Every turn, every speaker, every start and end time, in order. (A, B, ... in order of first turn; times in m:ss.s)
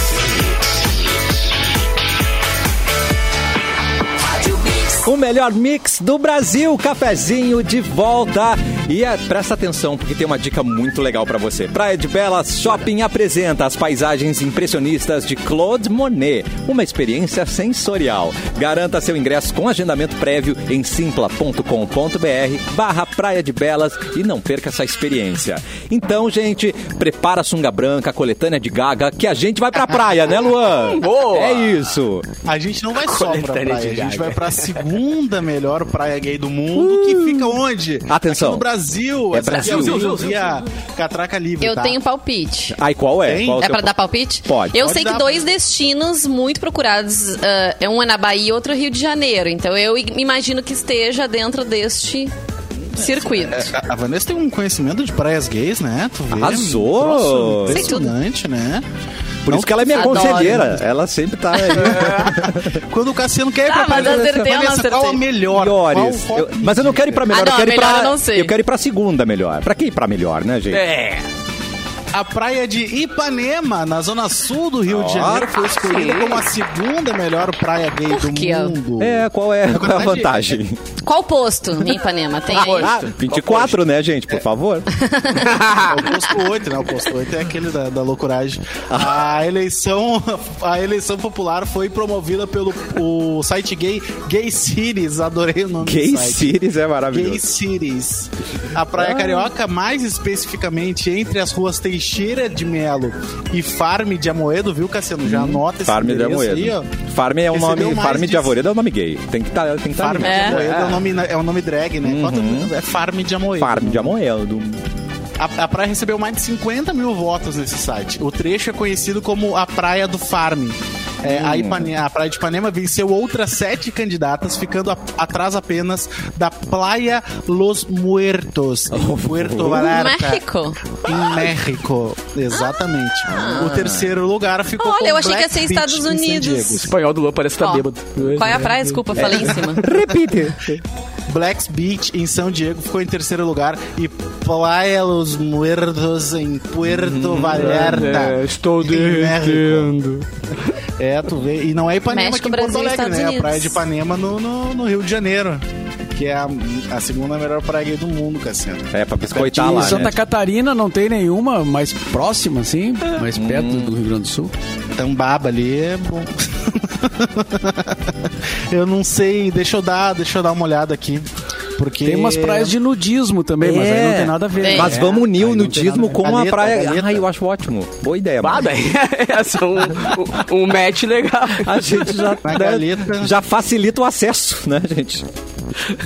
0:04.9-0:32.3 A
0:30.8-0:31.8 B
0:32.4-0:42.0 C
0:33.0-0:34.8 B
0:36.7-0:38.6 A
0:39.3-0:40.2 A
0:39.5-0:40.6 B
0:41.6-0:42.8 D
0:42.7-0:43.9 A
0:43.2-0:43.7 C
0:43.6-0:52.3 D
0:44.4-0:44.8 A
0:44.8-0:45.4 C
0:52.9-0:53.7 D
0:53.0-0:58.8 C
0:56.3-0:58.0 A
0:57.7-0:58.1 D
0:59.4-1:02.8 A
0:59.5-1:00.8 C
0:59.9-1:00.7 D
1:01.8-1:02.4 B
1:01.9-1:07.3 C
1:03.6-1:05.2 D
1:05.5-1:10.8 A
1:07.3-1:08.5 D
1:10.7-1:11.2 B
1:12.1-1:20.6 C
1:14.9-1:15.6 A
1:15.7-1:16.4 B
1:18.1-1:18.8 D
1:19.0-1:20.8 A
1:21.0-1:22.9 D
1:22.5-1:23.7 B
1:22.5-1:24.9 A
1:24.9-1:25.6 D
1:25.4-1:26.0 B
1:25.7-1:36.5 C
1:28.9-1:29.2 A
1:35.8-1:37.4 A
1:37.1-1:46.9 C
1:38.9-1:39.5 A
1:45.2-1:50.6 A
1:47.5-1:48.5 C
1:50.0-1:54.1 C
1:50.2-1:50.6 D
1:50.4-1:51.0 B
1:52.0-1:52.7 A
1:53.6-1:54.8 A
1:55.4-2:10.4 C
2:01.2-2:01.9 A
2:08.9-2:10.0 A
2:09.9-2:11.0 D
2:11.0-2:16.9 C
2:13.3-2:13.7 D
2:13.3-2:14.1 A
2:14.8-2:16.9 D
2:16.8-2:19.3 B
2:17.6-2:19.9 D
2:19.2-2:19.5 C
2:19.2-2:20.8 A
2:21.3-2:29.9 C
2:26.8-2:28.2 A
2:27.5-2:30.2 B
2:31.0-2:40.0 C
2:32.1-2:33.8 D
2:38.9-2:40.2 A
2:39.4-2:44.5 E
2:43.3-2:44.0 A
2:44.9-2:52.7 C
2:52.0-2:55.6 E
2:53.6-2:58.7 A
2:54.6-2:55.0 D
2:55.1-2:57.2 C
2:58.4-3:02.3 B
3:01.6-3:05.2 A
3:02.4-3:03.3 C